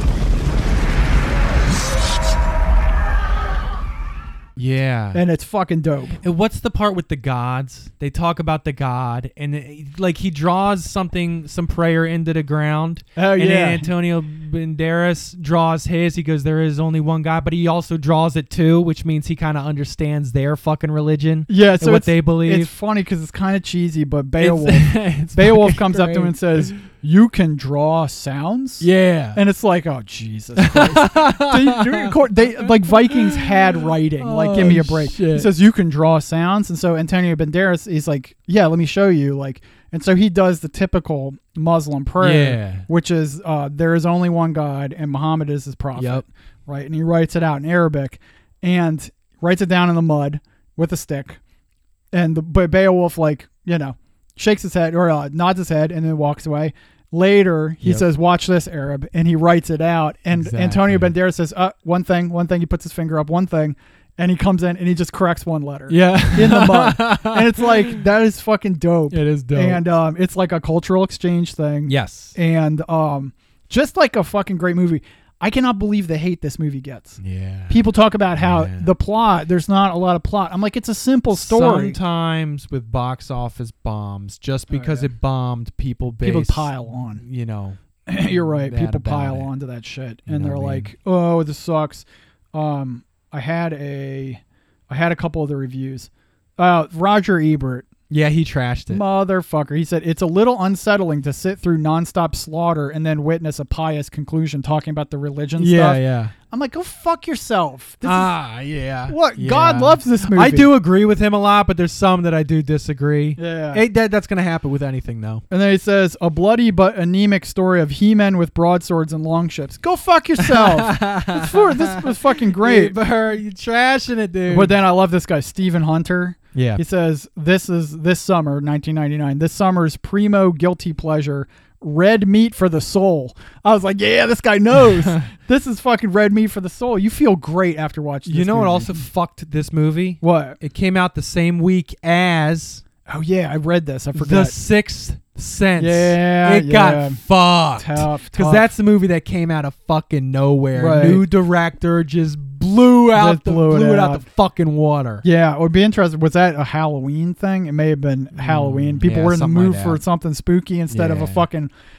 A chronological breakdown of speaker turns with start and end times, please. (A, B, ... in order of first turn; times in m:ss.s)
0:04.6-0:05.2 A
0:05.1-0:06.2 B
0:06.2-0:22.7 A
0:13.2-0:13.9 B
0:21.5-0:51.4 B
0:24.4-0:26.8 A
0:28.8-0:29.4 A
0:30.6-0:35.5 A
0:42.2-0:42.9 A
0:46.0-0:46.2 A
0:52.1-1:22.0 B
1:00.3-1:01.1 A
1:05.9-1:08.0 A
1:09.1-1:09.8 A
1:11.9-1:12.4 A
1:17.2-1:18.9 A
1:21.3-1:29.5 A
1:24.7-1:25.1 B
1:26.2-1:27.2 B
1:28.1-1:37.9 B
1:30.3-1:30.9 A
1:38.1-1:39.0 A
1:38.9-1:48.4 B
1:45.6-1:46.3 A
1:48.0-1:55.4 A
1:49.1-1:50.7 B
1:53.4-1:53.8 B
1:55.5-2:03.0 B
2:00.4-2:04.8 A
2:04.5-2:18.9 B
2:06.5-2:06.8 A
2:18.2-2:22.8 A
2:20.2-2:20.6 B
2:23.1-2:24.6 B
2:24.1-2:35.2 A
2:25.8-2:27.2 B
2:27.7-2:28.7 B
2:30.7-2:31.2 B
2:33.1-2:34.2 B
2:35.2-2:41.7 B
2:38.3-2:40.0 A
2:40.9-2:41.5 A